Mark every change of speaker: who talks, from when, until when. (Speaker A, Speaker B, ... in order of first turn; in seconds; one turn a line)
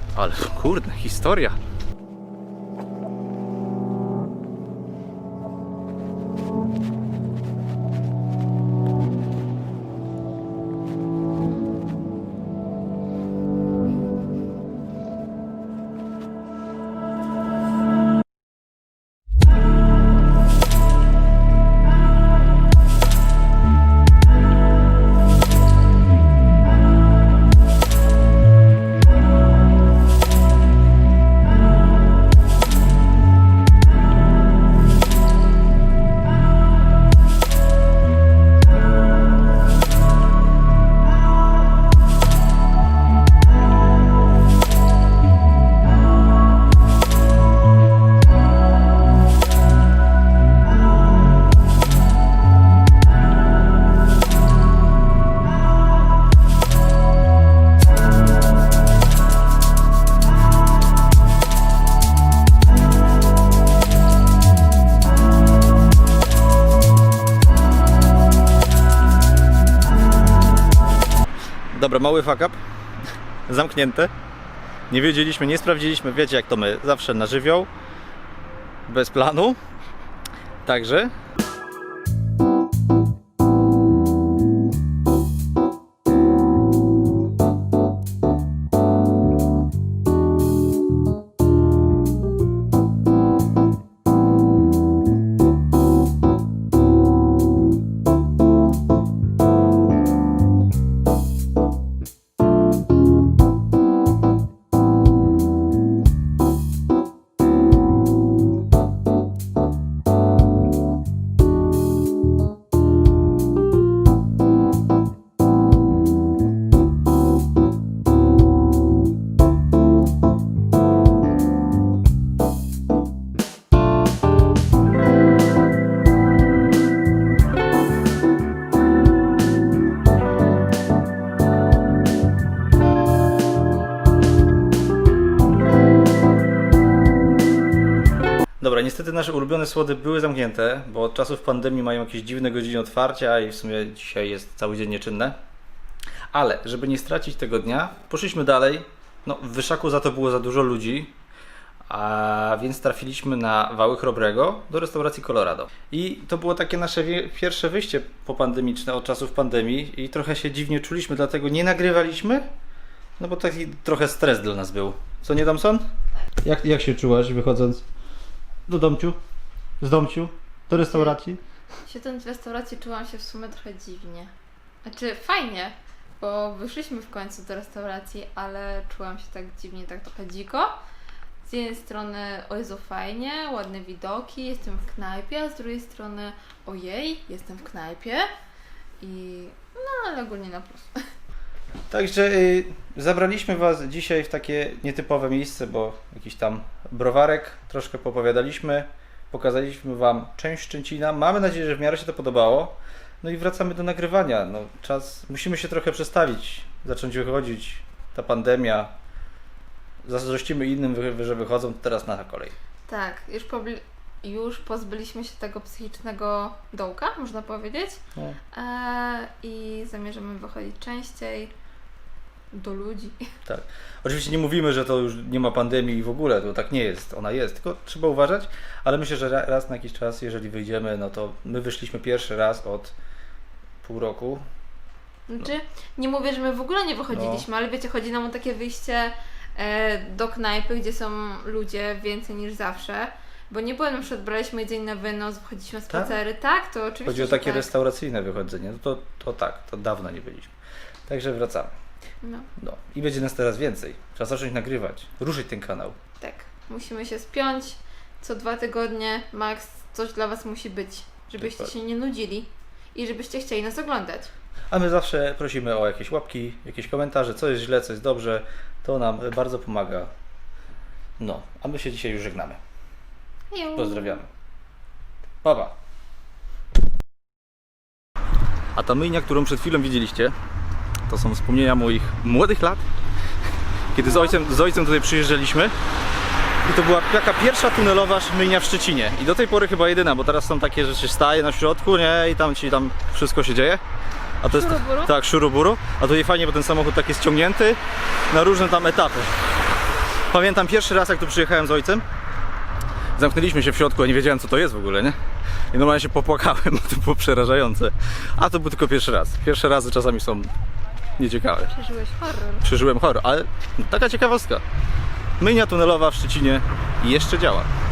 Speaker A: 0.1-1.6
Speaker A: 71.7-72.6
Speaker A: 73.5-74.1
Speaker A: 74.9-77.7
Speaker A: 78.9-79.6
Speaker A: 80.7-81.1
Speaker A: 138.6-145.4
Speaker A: 146.3-151.1
Speaker A: 151.9-162.4
Speaker A: 163.2-165.9
Speaker A: 166.4-167.8
Speaker A: 168.7-169.2
Speaker A: 169.8-171.4
Speaker B: 170.8-171.2
Speaker B: 171.8-174.3
Speaker B: 174.8-180.8
Speaker B: 181.4-188.3
Speaker B: 189.0-191.0
Speaker A: 191.9-208.9
Speaker A: 210.0-212.5
Speaker B: 212.9-221.5
Speaker B: 222.5-223.2
Speaker A: 223.4-232.9
Speaker A: 233.8-234.4
Speaker B: 235.3-247.7
Speaker A: 237.1-237.4
Speaker A: 245.9-246.2
Speaker A: 247.0-250.5
Speaker A: 251.1-251.7
Speaker B: 252.2-252.5
Speaker A: 252.6-255.9
Speaker B: 256.2-264.3
Speaker A: 261.4-261.7
Speaker A: 264.7-270.1
Speaker A: 271.2-272.6
Speaker B: 273.5-274.2
Speaker A: 273.8-274.3
Speaker A: 275.4-275.8
Speaker A: 278.7-280.3
Speaker A: 281.1-282.8
Speaker A: 283.9-285.7
Speaker B: 284.0-284.4
Speaker A: 286.6-293.8
Speaker A: 294.4-297.8
Speaker B: 294.4-295.1
Speaker A: 298.3-299.3
Speaker A: 300.3-302.0
Speaker A: 303.2-305.1
Speaker A: 305.7-310.5
Speaker A: 311.2-311.7
Speaker B: 311.7-312.6
Speaker A: 312.6-314.6
Speaker A: 315.4-317.7